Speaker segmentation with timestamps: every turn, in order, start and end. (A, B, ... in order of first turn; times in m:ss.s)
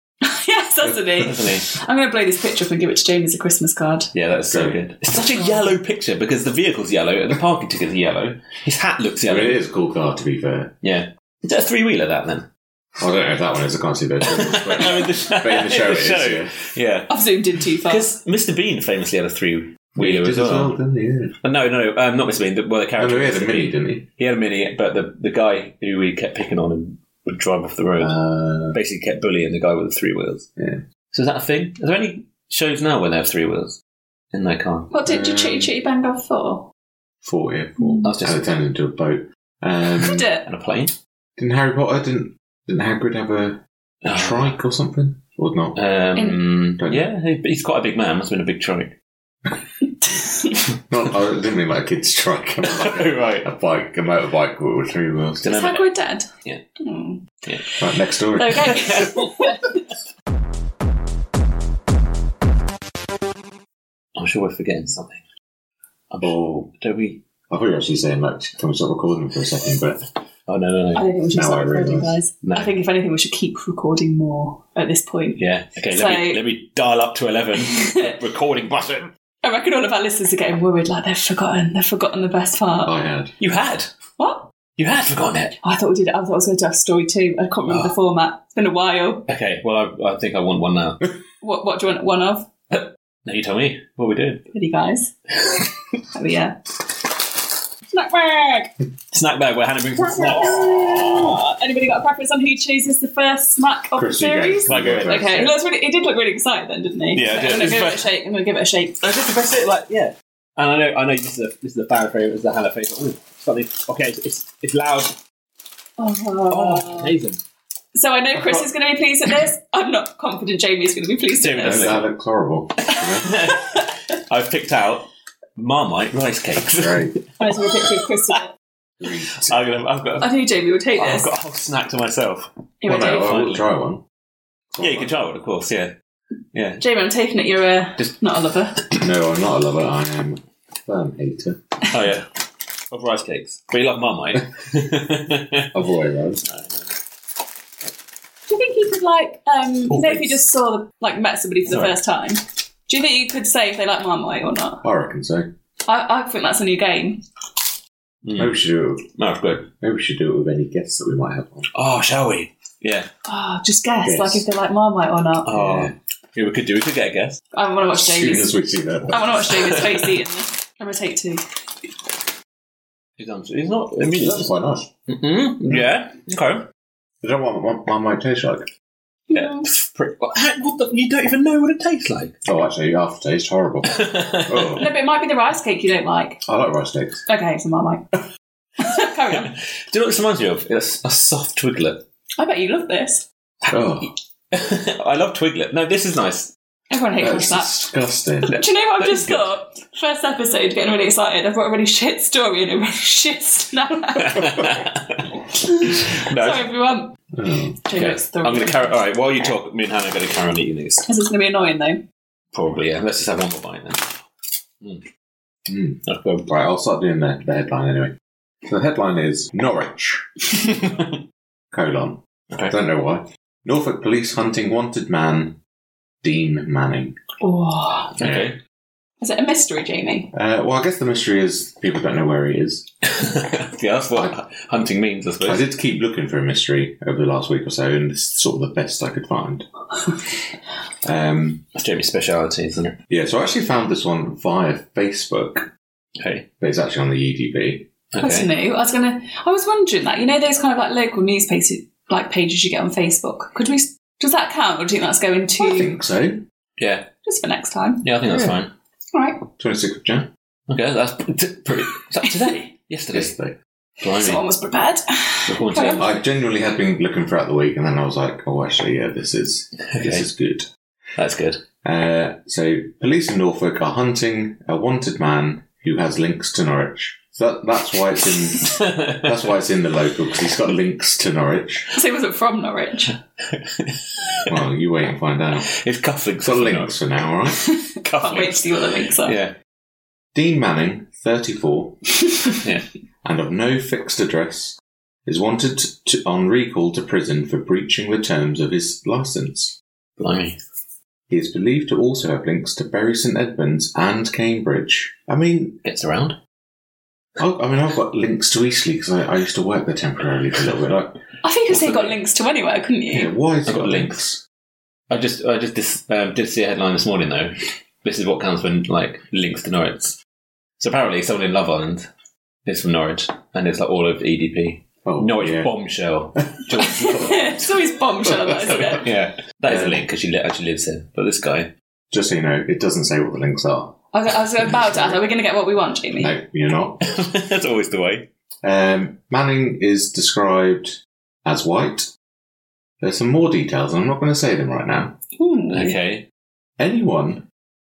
0:00.2-0:04.1 A
0:01.2-0:01.7 B
0:04.1-0:09.6 B
0:04.5-0:04.8 C
0:05.2-0:05.6 A
0:09.3-0:10.8 C
0:10.8-0:12.5 B
0:13.0-0:16.6 C
0:14.2-0:20.8 B
0:17.1-0:18.1 A
0:20.0-0:21.4 C
0:21.4-0:28.2 B
0:23.0-0:24.1 C
0:28.0-0:28.8 C
0:28.7-0:30.5 B
0:30.6-0:30.8 C
0:31.1-0:33.8 B
0:34.3-0:34.9 B
0:34.9-0:36.7 A
0:35.0-0:35.7 C
0:37.2-0:40.3 C
0:37.8-0:38.1 A
0:38.0-0:38.4 B
0:40.0-0:40.4 A
0:40.4-0:40.9 B
0:41.4-0:43.6 C
0:44.0-0:44.5 B
0:44.1-0:45.8 C
0:45.8-0:48.9 B
0:46.8-0:47.1 C
0:50.0-0:50.6 A
0:50.8-0:55.5 C
0:52.7-0:53.5 B
0:55.4-0:57.8 A
0:55.4-0:55.9 B
0:57.8-0:59.0 C
0:58.4-0:59.8 A
0:58.7-0:59.5 B
1:04.2-1:05.2 B
1:06.1-1:07.2 B
1:06.2-1:06.7 C
1:07.5-1:10.0 C
1:10.5-1:11.1 B
1:10.9-1:16.4 A
1:11.3-1:12.2 C
1:12.4-1:12.7 B
1:15.4-1:19.1 B
1:17.6-1:18.2 A
1:19.4-1:23.0 A
1:22.8-1:23.3 C
1:23.4-1:23.9 B
1:24.2-1:24.5 A
1:24.8-1:25.6 B
1:25.6-1:29.3 A
1:27.7-1:27.9 B
1:29.3-1:31.1 B
1:31.4-1:32.5 A
1:32.7-1:34.4 B
1:34.5-1:35.1 A
1:36.1-1:36.6 A
1:37.9-1:38.7 A
1:39.1-1:41.4 B
1:39.9-1:49.1 A
1:43.9-1:45.5 C
1:44.6-1:45.5 B
1:47.1-1:48.1 B
1:49.0-1:55.2 B
1:56.0-1:57.1 A
1:56.5-1:57.4 B
1:57.9-2:02.0 A
2:01.4-2:02.1 B
2:01.6-2:03.3 C
2:02.9-2:03.9 A
2:02.9-2:07.9 B
2:06.7-2:07.1 C
2:07.4-2:08.5 A
2:09.0-2:09.6 C
2:09.4-2:10.3 B
2:10.2-2:11.3 A
2:11.0-2:12.5 B
2:12.8-2:13.3 A
2:12.9-2:14.0 C
2:13.0-2:13.6 B
2:14.7-2:15.1 C
2:14.8-2:15.9 B
2:16.5-2:16.8 B
2:16.8-2:18.8 A
2:18.9-2:21.6 C
2:21.9-2:22.3 B
2:22.9-2:25.7 B
2:25.7-2:26.4 C
2:26.4-2:27.0 B
2:28.5-2:34.8 A
2:29.9-2:30.4 B
2:31.7-2:31.9 B
2:34.8-2:35.5 C
2:35.9-2:37.2 A
2:38.2-2:38.6 B
2:38.4-2:39.1 C
2:39.2-2:39.7 B
2:39.7-2:41.7 C
2:41.7-2:43.1 B
2:43.3-2:45.5 A
2:44.0-2:44.4 C
2:45.4-2:47.4 B
2:45.5-2:45.9 C
2:47.5-2:48.5 A
2:47.9-2:49.5 C
2:49.1-2:51.4 A
2:49.7-2:50.0 B
2:53.2-2:54.5 B
2:54.2-2:54.9 C
2:55.1-2:56.6 B
2:57.2-2:58.7 C
2:59.3-2:59.7 A
2:59.3-3:02.4 B
3:02.4-3:04.9 C
3:03.9-3:04.8 B
3:04.7-3:06.4 A
3:06.4-3:07.2 C
3:07.3-3:08.2 A
3:08.8-3:09.5 A
3:09.3-3:12.0 B
3:12.4-3:13.2 A
3:13.7-3:14.1 C
3:14.5-3:16.5 B
3:16.9-3:17.7 A
3:17.2-3:18.5 C
3:18.5-3:24.7 A
3:19.0-3:19.5 B
3:24.2-3:26.6 B
3:25.5-3:27.2 A
3:27.3-3:27.8 C
3:27.8-3:29.0 A
3:27.9-3:31.1 B
3:31.1-3:32.0 A
3:32.5-3:34.2 B
3:35.7-3:40.3 C
3:36.0-3:36.5 B
3:40.6-3:41.2 B
3:41.7-3:45.6 C
3:46.2-3:47.2 C
3:47.4-3:48.1 A
3:48.2-3:48.6 B
3:48.2-3:48.6 C
3:49.2-3:50.3 A
3:50.3-3:52.9 C
3:53.1-3:55.6 B
3:55.4-3:59.7 C
4:01.0-4:01.6 C
4:01.8-4:03.0 B
4:03.1-4:05.7 C
4:06.2-4:06.5 B
4:06.6-4:07.9 C
4:08.1-4:08.5 B
4:08.2-4:15.9 A
4:15.6-4:16.4 C
4:16.8-4:17.1 B
4:17.2-4:18.5 A
4:18.0-4:18.7 B
4:19.1-4:19.4 A
4:19.6-4:20.3 C
4:20.7-4:23.3 B
4:23.1-4:23.6 C
4:24.0-4:24.4 B
4:24.1-4:26.2 A
4:25.4-4:26.2 B
4:26.0-4:30.7 C
4:29.9-4:30.3 B
4:31.2-4:31.6 B
4:31.8-4:41.9 C
4:38.6-4:39.3 B
4:41.9-4:43.2 A
4:43.5-4:44.6 B
4:44.5-4:45.7 C
4:45.7-4:47.0 B
4:46.4-4:47.6 C
4:47.5-4:49.4 A
4:48.0-4:49.5 B
4:50.3-4:52.0 C
4:53.2-4:59.8 C
5:00.2-5:00.6 B
5:01.3-5:05.8 C
5:05.8-5:06.4 B
5:07.4-5:11.2 C
5:11.4-5:13.3 A
5:11.7-5:12.2 B
5:13.1-5:14.4 C
5:13.6-5:14.2 B
5:15.1-5:20.2 B
5:20.8-5:22.1 B
5:22.6-5:27.8 B
5:25.0-5:25.7 C
5:27.0-5:29.0 A
5:28.6-5:31.7 B
5:29.6-5:30.0 C
5:32.1-5:34.0 C
5:34.1-5:36.4 A
5:34.6-5:35.2 C
5:36.2-5:37.0 C
5:37.0-5:38.3 B
5:38.6-5:42.1 C
5:43.0-5:45.2 C
5:45.4-5:46.0 A
5:45.7-5:46.3 B
5:46.8-5:47.4 C